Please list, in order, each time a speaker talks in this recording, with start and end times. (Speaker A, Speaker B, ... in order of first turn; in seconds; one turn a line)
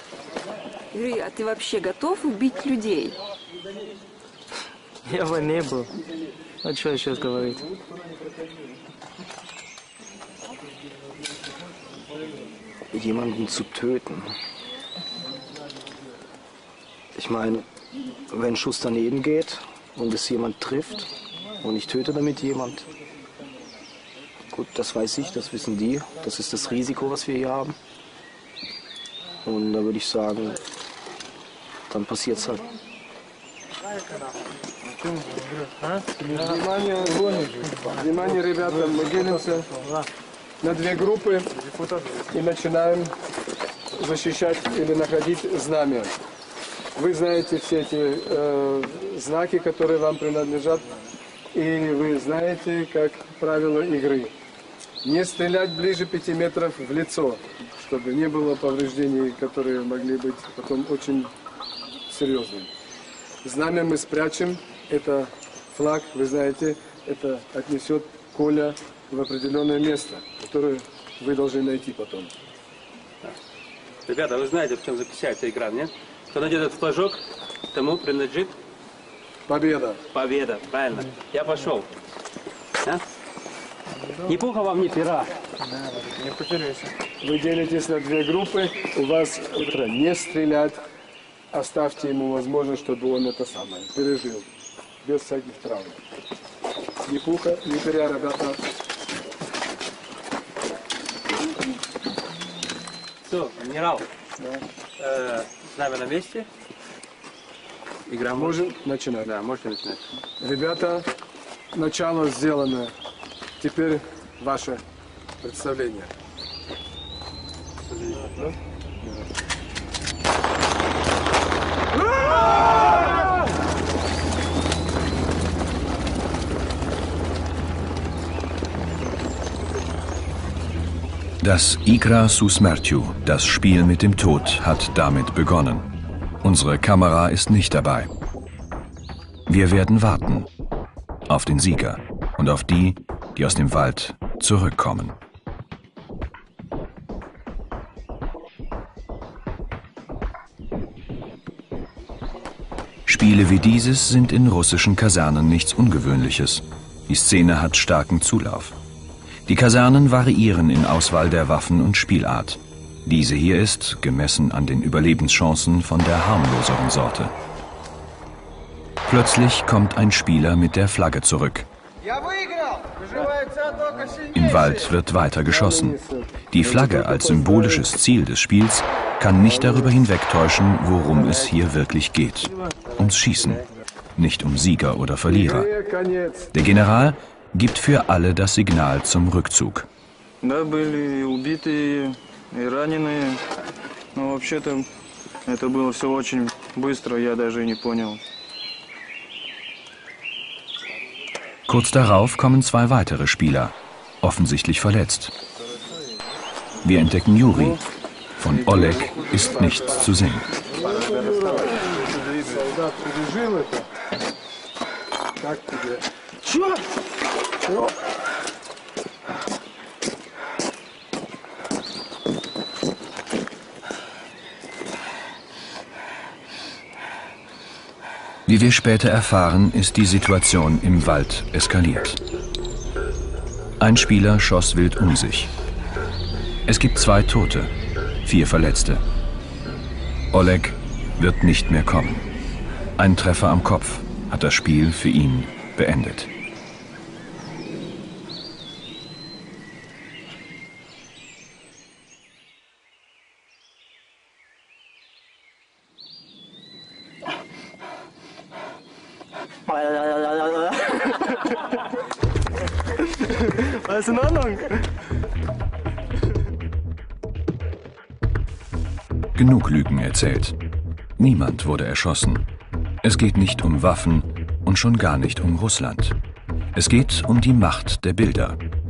Speaker A: 0.9-3.2
Speaker B: 5.0-5.9
Speaker B: 6.6-7.7
Speaker C: 12.9-14.3
Speaker C: 17.1-17.7
Speaker C: 18.3-21.1
Speaker C: 21.6-22.9
Speaker C: 24.5-27.8
Speaker C: 29.4-30.6
Speaker C: 31.9-32.6
Speaker D: 34.9-35.7
Speaker B: 35.8-36.6
Speaker E: 36.2-39.7
Speaker B: 39.7-40.0
Speaker E: 40.6-41.5
Speaker D: 41.6-42.2
Speaker E: 42.3-43.1
Speaker E: 43.9-46.2
Speaker E: 47.0-50.9
Speaker E: 51.5-54.3
Speaker E: 55.0-61.3
Speaker E: 62.1-62.7
Speaker E: 63.4-72.3
Speaker F: 74.1-78.6
Speaker E: 79.5-80.0
Speaker F: 80.1-81.9
Speaker F: 84.3-85.3
Speaker D: 85.9-86.9
Speaker E: 87.2-90.8
Speaker E: 91.5-94.5
Speaker E: 95.0-96.0
Speaker E: 97.0-98.6
Speaker F: 103.2-104.1
Speaker F: 105.0-106.5
Speaker F: 108.1-110.1
Speaker E: 108.3-109.3
Speaker E: 110.4-111.1
Speaker E: 111.7-112.9
Speaker E: 113.6-114.8
Speaker E: 115.4-116.1
Speaker F: 117.9-118.5
Speaker G: 131.4-135.9
Speaker G: 136.4-138.1
Speaker G: 139.5-140.5
Speaker G: 141.3-145.2
Speaker G: 153.1-158.8
Speaker G: 159.5-167.3
Speaker G: 169.1-171.7
Speaker G: 174.3-176.0
Speaker E: 175.5-177.8
Speaker G: 176.5-183.6
Speaker G: 184.2-185.7
Speaker E: 185.3-186.5
Speaker G: 186.5-189.9
Speaker D: 190.4-193.4
Speaker D: 194.1-194.9
Speaker D: 195.5-198.2
Speaker G: 201.7-205.3
Speaker G: 206.8-207.8
Speaker G: 208.4-210.5
Speaker D: 208.6-209.8
Speaker E: 210.7-213.9
Speaker E: 215.4-216.1
Speaker G: 228.5-232.2
Speaker G: 233.8-235.5
Speaker G: 236.7-237.7
Speaker G: 238.2-239.0
Speaker G: 240.3-242.3
Speaker G: 243.0-246.3
Speaker B: 259.7-260.7
Speaker B: 263.5-264.7
Speaker G: 269.4-270.6
Speaker G: 271.2-272.4
Speaker G: 273.0-276.1
Speaker G: 276.7-278.6